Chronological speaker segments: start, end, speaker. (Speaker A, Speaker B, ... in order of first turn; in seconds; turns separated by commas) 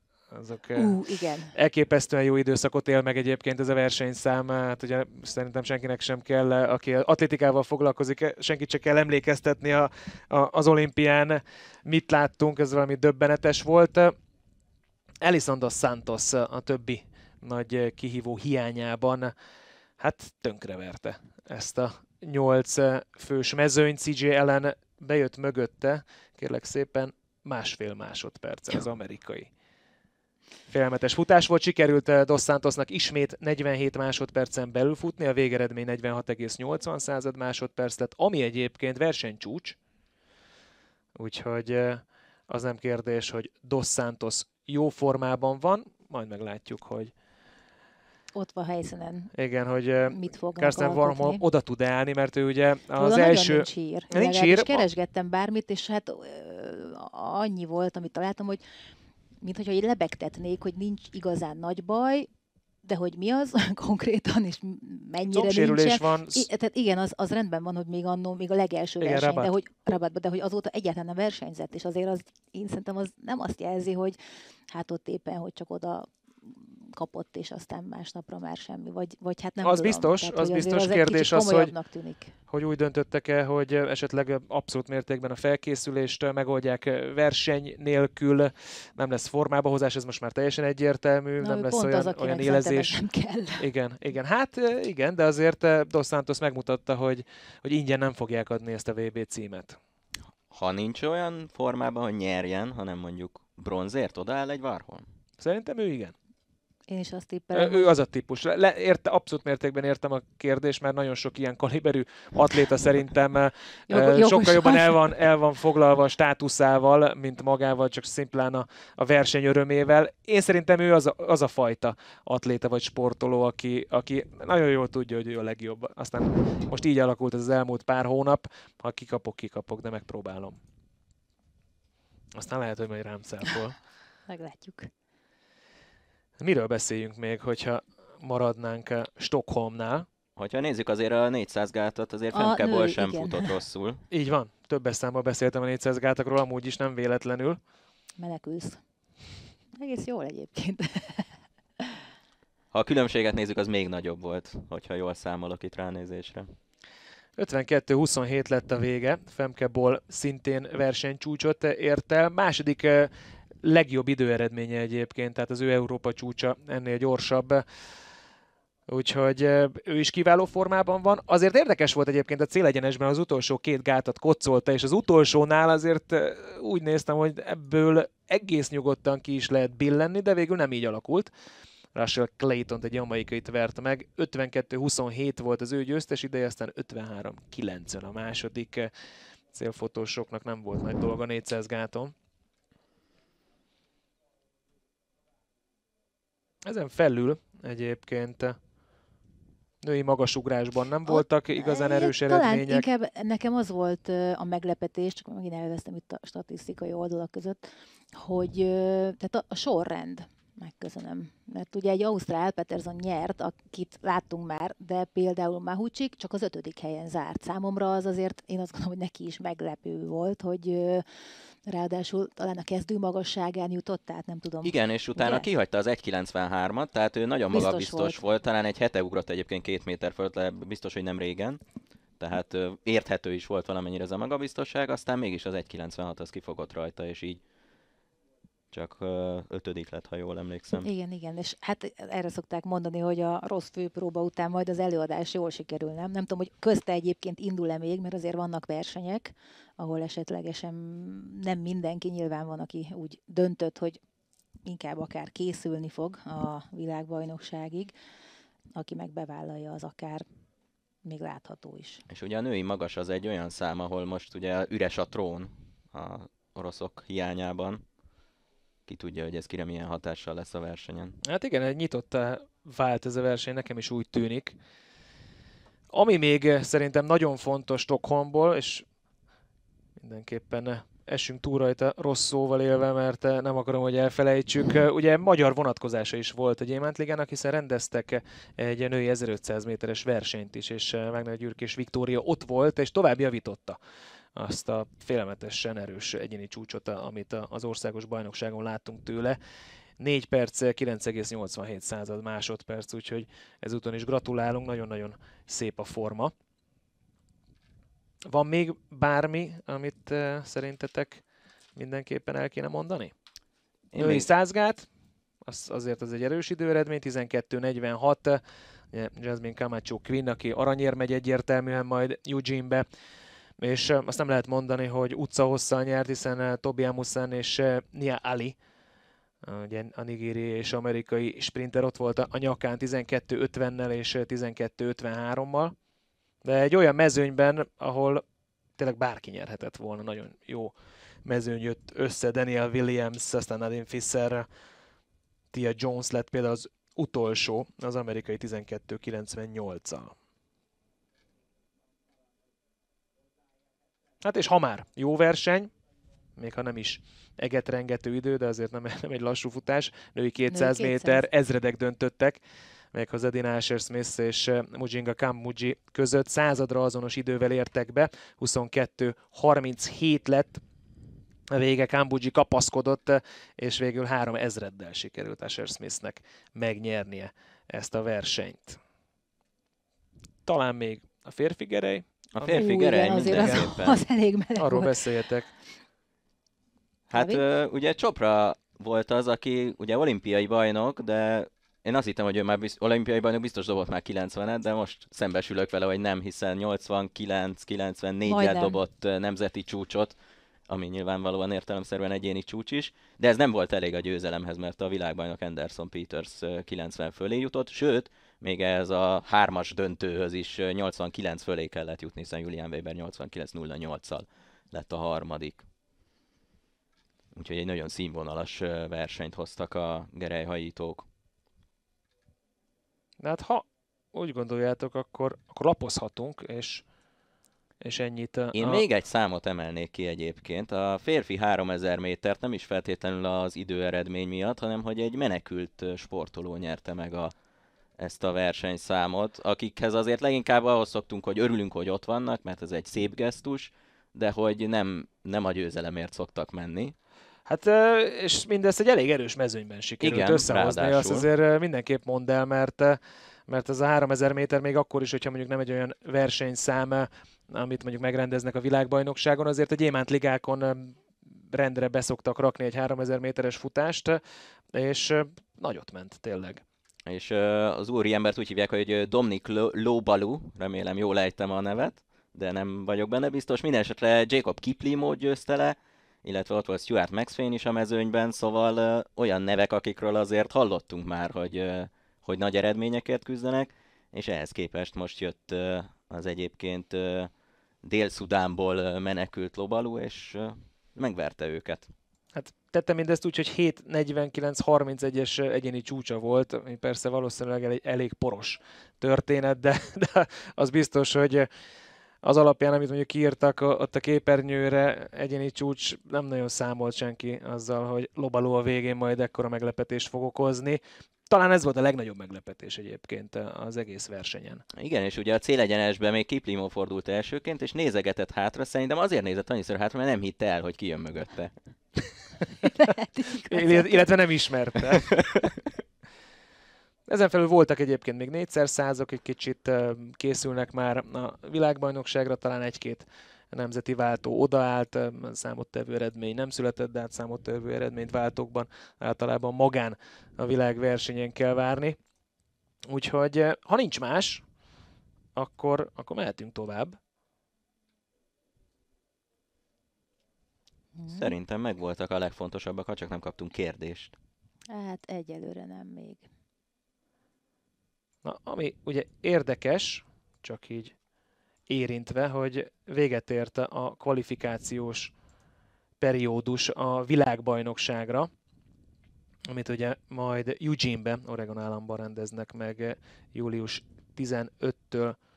Speaker A: 0.3-1.0, Speaker B: 0.8-1.5, Speaker A: 1.5-14.1, Speaker A: 15.2-19.3, Speaker A: 20.0-29.5, Speaker A: 30.7-39.8, Speaker A: 41.2-47.1, Speaker B: 48.3-49.3, Speaker A: 49.3-54.9, Speaker B: 50.1-51.4, Speaker B: 53.0-58.6, Speaker B: 59.4-62.3, Speaker B: 62.8-74.2, Speaker A: 65.3-66.5, Speaker A: 69.0-69.5, Speaker B: 74.7-82.3, Speaker A: 79.6-81.7, Speaker A: 82.5-93.0, Speaker B: 91.4-93.7, Speaker A: 93.6-99.8, Speaker C: 100.5-105.0, Speaker A: 105.4-106.1, Speaker B: 106.9-107.9, Speaker A: 107.5-130.6, Speaker B: 113.9-115.0, Speaker A: 132.3-133.8, Speaker B: 134.3-134.9, Speaker A: 136.4-140.1, Speaker C: 140.4-144.0, Speaker B: 142.3-143.6, Speaker A: 144.1-147.6, Speaker B: 148.2-148.8, Speaker B: 149.8-152.0, Speaker C: 152.7-156.5, Speaker A: 157.4-163.1, Speaker A: 163.6-167.6, Speaker A: 168.9-181.3, Speaker A: 181.9-188.9, Speaker A: 189.5-192.1, Speaker A: 196.7-198.6, Speaker A: 199.8-202.8, Speaker B: 201.1-221.1, Speaker B: 221.7-225.5, Speaker C: 224.6-231.6, Speaker B: 227.5-228.2, Speaker C: 232.2-237.4, Speaker C: 238.7-240.9, Speaker B: 240.8-254.0, Speaker B: 254.6-257.9, Speaker B: 258.8-260.3, Speaker B: 261.0-262.0, Speaker C: 262.1-267.8, Speaker C: 268.9-271.2, Speaker A: 271.2-274.6, Speaker A: 275.9-278.9, Speaker A: 280.0-293.8, Speaker A: 294.4-299.4, Speaker A: 300.0-306.3, Speaker A: 308.3-311.2, Speaker A: 311.8-313.1, Speaker C: 313.9-314.3, Speaker A: 314.0-314.9, Speaker A: 315.4-318.4, Speaker A: 318.9-322.9, Speaker A: 323.6-328.6, Speaker A: 329.4-335.7, Speaker A: 336.4-338.2, Speaker A: 338.8-340.7, Speaker A: 341.2-344.5, Speaker A: 345.5-350.1, Speaker A: 354.2-355.7, Speaker A: 356.4-362.4, Speaker B: 360.5-361.2, Speaker A: 362.9-370.6, Speaker A: 371.5-378.8, Speaker A: 380.5-383.7, Speaker C: 382.4-384.0, Speaker B: 382.4-385.0, Speaker A: 384.6-385.5, Speaker C: 387.1-400.1, Speaker B: 387.1-387.4, Speaker B: 398.3-398.8, Speaker C: 400.7-415.6, Speaker C: 417.3-421.1, Speaker A: 423.2-426.9, Speaker A: 427.8-428.8, Speaker C: 428.5-437.3, Speaker C: 438.0-446.9, Speaker A: 447.5-461.0, Speaker C: 450.0-451.2, Speaker A: 461.5-464.2, Speaker A: 464.7-466.6, Speaker C: 467.1-487.3, Speaker C: 487.8-491.9, Speaker A: 492.4-501.5, Speaker A: 502.2-514.6, Speaker C: 514.7-521.5, Speaker B: 522.8-524.1, Speaker A: 523.4-525.1, Speaker C: 525.2-525.5, Speaker A: 527.1-542.0, Speaker A: 542.9-544.4, Speaker A: 545.4-547.0, Speaker B: 551.0-551.3, Speaker C: 551.1-554.1, Speaker B: 554.7-556.3, Speaker A: 558.2-561.0, Speaker A: 561.7-565.1, Speaker A: 566.0-568.3, Speaker A: 569.5-575.2